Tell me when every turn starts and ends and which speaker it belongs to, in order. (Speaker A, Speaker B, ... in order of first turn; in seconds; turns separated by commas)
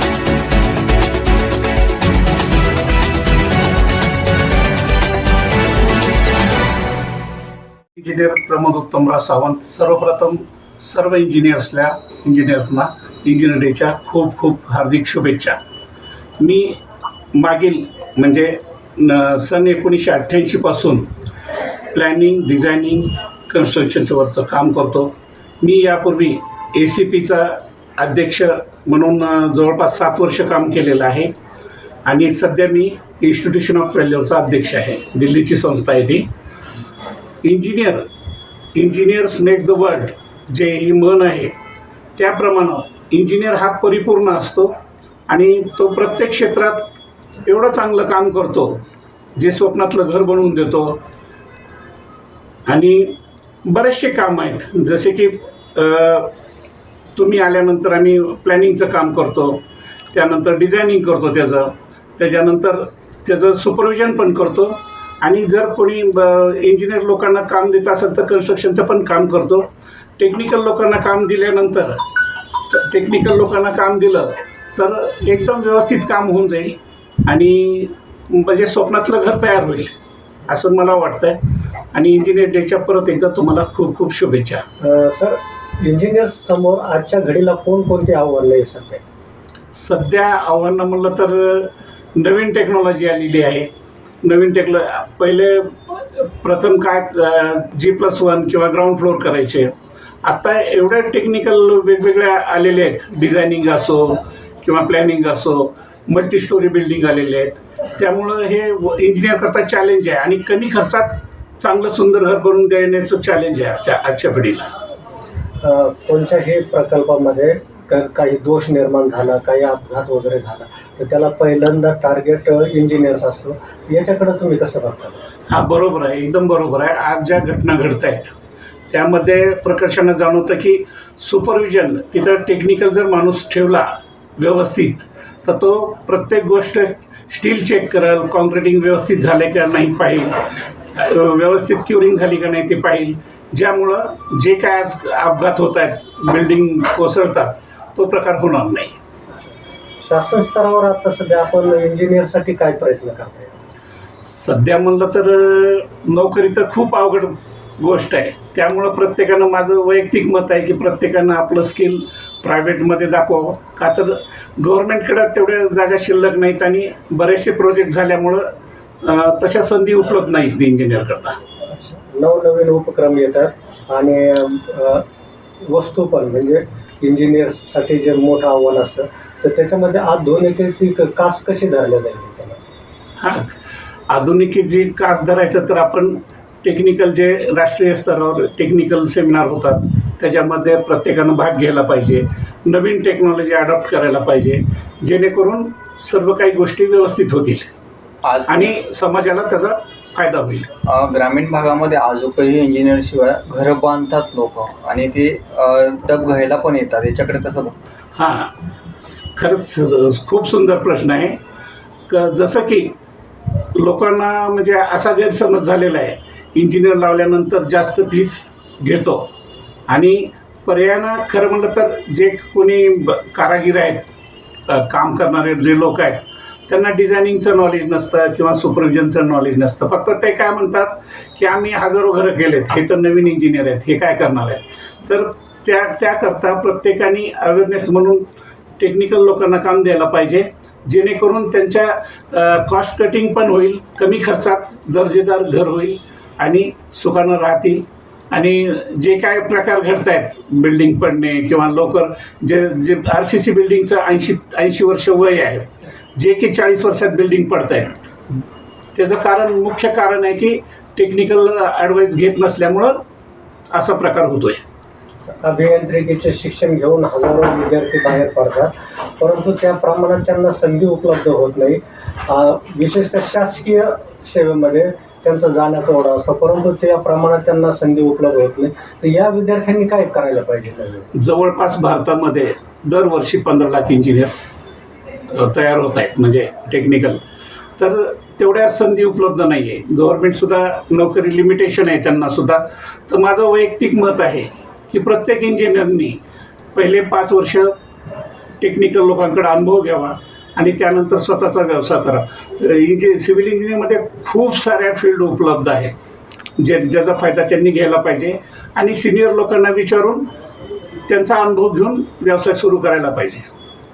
Speaker A: 7.9-15.6, Speaker A: 16.4-16.8, Speaker A: 17.3-21.1, Speaker A: 21.9-31.3, Speaker A: 32.0-36.3, Speaker A: 37.4-38.1, Speaker A: 38.7-41.5, Speaker A: 42.2-44.7, Speaker A: 45.3-46.9, Speaker A: 47.4-48.8, Speaker A: 49.4-51.0, Speaker A: 52.7-56.3, Speaker A: 57.1-69.7, Speaker A: 70.2-72.0, Speaker A: 72.7-79.9, Speaker A: 80.5-81.4, Speaker A: 81.9-84.6, Speaker B: 84.8-89.0, Speaker A: 89.7-93.7, Speaker A: 94.2-99.7, Speaker A: 100.2-114.7, Speaker B: 115.6-125.2, Speaker A: 125.5-128.3, Speaker A: 128.9-140.4, Speaker A: 140.9-149.0, Speaker B: 149.3-153.6, Speaker A: 154.2-168.5, Speaker A: 169.0-171.4, Speaker B: 171.7-175.0, Speaker B: 175.6-182.6, Speaker A: 183.2-183.5, Speaker A: 184.1-197.7, Speaker C: 198.2-198.8, Speaker A: 198.4-200.7, Speaker C: 200.8-207.8, Speaker A: 208.1-211.4, Speaker A: 212.1-212.9, Speaker A: 213.5-219.3, Speaker A: 219.9-224.1, Speaker A: 224.7-238.2, Speaker A: 238.8-258.0, Speaker A: 258.9-263.0, Speaker A: 263.7-264.6, Speaker B: 265.4-281.1, Speaker A: 281.2-284.3, Speaker A: 285.3-287.2, Speaker A: 287.8-296.2, Speaker A: 296.7-297.7, Speaker A: 298.6-305.9, Speaker A: 306.6-310.3, Speaker A: 311.1-313.5